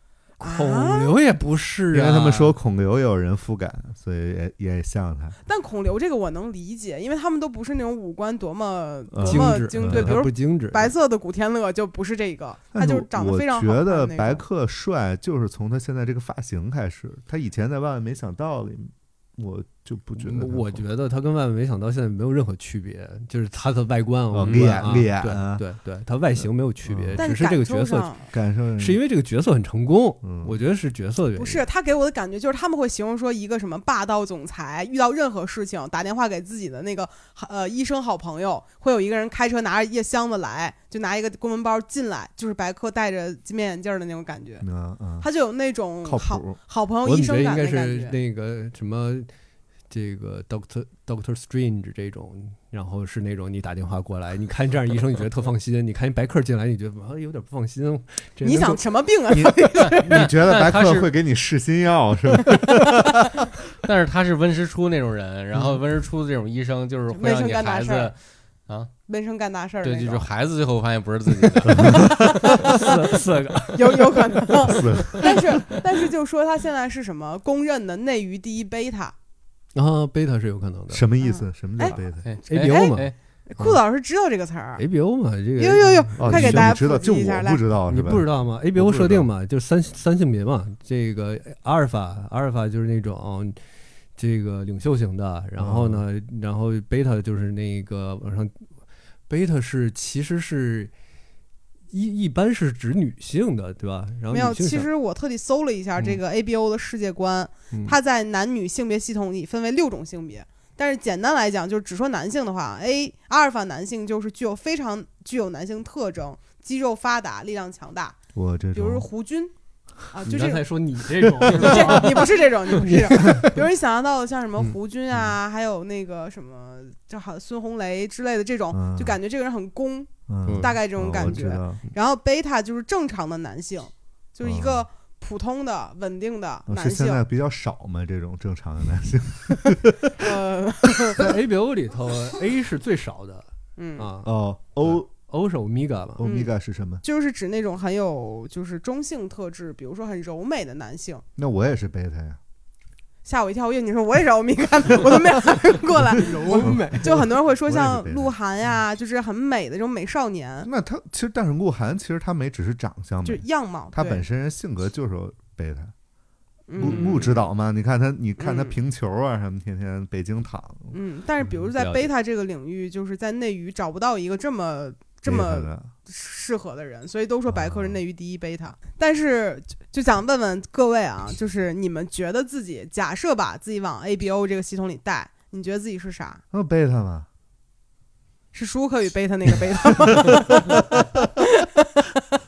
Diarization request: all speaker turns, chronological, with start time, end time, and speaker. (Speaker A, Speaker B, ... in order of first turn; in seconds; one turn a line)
Speaker A: 0.4-2.5
Speaker B: 0.4-1.2
Speaker C: 1.9-5.4
Speaker B: 5.5-14.4
Speaker C: 9.1-10.2
Speaker A: 9.2-10.9
Speaker C: 12.7-20.9
Speaker A: 20.2-28.1
Speaker C: 24.3-25.6
Speaker D: 24.4-25.0
Speaker C: 26.9-27.2
Speaker B: 27.2-28.2
Speaker C: 28.3-29.0
Speaker A: 28.8-31.6
Speaker C: 30.2-30.5
Speaker B: 31.4-44.6
Speaker C: 44.6-45.3
Speaker B: 45.2-48.2
Speaker C: 46.0-46.6
Speaker A: 47.0-49.3
Speaker A: 49.9-58.8
Speaker B: 58.4-60.3
Speaker C: 59.3-63.4
Speaker D: 59.9-61.1
Speaker D: 63.8-68.9
Speaker B: 67.1-68.1
Speaker B: 69.1-70.3
Speaker D: 69.8-72.8
Speaker C: 71.7-72.1
Speaker B: 71.8-72.8
Speaker A: 72.4-75.8
Speaker B: 73.7-79.1
Speaker C: 74.7-75.3
Speaker A: 79.7-81.1
Speaker C: 80.9-82.3
Speaker B: 81.2-82.0
Speaker D: 82.1-83.2
Speaker A: 82.5-83.8
Speaker B: 82.6-84.8
Speaker A: 84.8-86.8
Speaker B: 85.6-87.6
Speaker C: 86.2-89.3
Speaker A: 87.9-93.6
Speaker A: 94.2-98.7
Speaker C: 95.6-96.0
Speaker A: 99.3-100.9
Speaker A: 101.9-104.9
Speaker B: 104.3-118.2
Speaker A: 107.7-108.0
Speaker C: 118.3-119.1
Speaker B: 118.8-119.5
Speaker B: 120.0-120.7
Speaker A: 120.2-123.6
Speaker B: 121.4-137.2
Speaker C: 128.7-129.2
Speaker C: 130.3-131.8
Speaker A: 130.4-131.4
Speaker C: 134.4-134.8
Speaker C: 136.7-140.2
Speaker B: 140.2-141.3
Speaker A: 141.2-144.3
Speaker B: 143.8-144.1
Speaker C: 144.2-145.1
Speaker A: 144.8-146.2
Speaker C: 146.2-147.0
Speaker B: 146.2-146.5
Speaker B: 147.0-151.2
Speaker C: 151.4-152.4
Speaker B: 153.2-160.7
Speaker A: 156.2-157.3
Speaker C: 156.6-156.8
Speaker C: 157.7-158.3
Speaker C: 160.6-165.9
Speaker B: 163.2-164.2
Speaker B: 166.7-167.4
Speaker C: 166.8-171.0
Speaker D: 166.9-167.3
Speaker B: 168.4-168.8
Speaker B: 170.9-186.4
Speaker A: 171.5-172.1
Speaker C: 175.3-175.9
Speaker C: 177.5-178.0
Speaker C: 186.5-187.3
Speaker B: 188.5-192.2
Speaker C: 190.2-191.2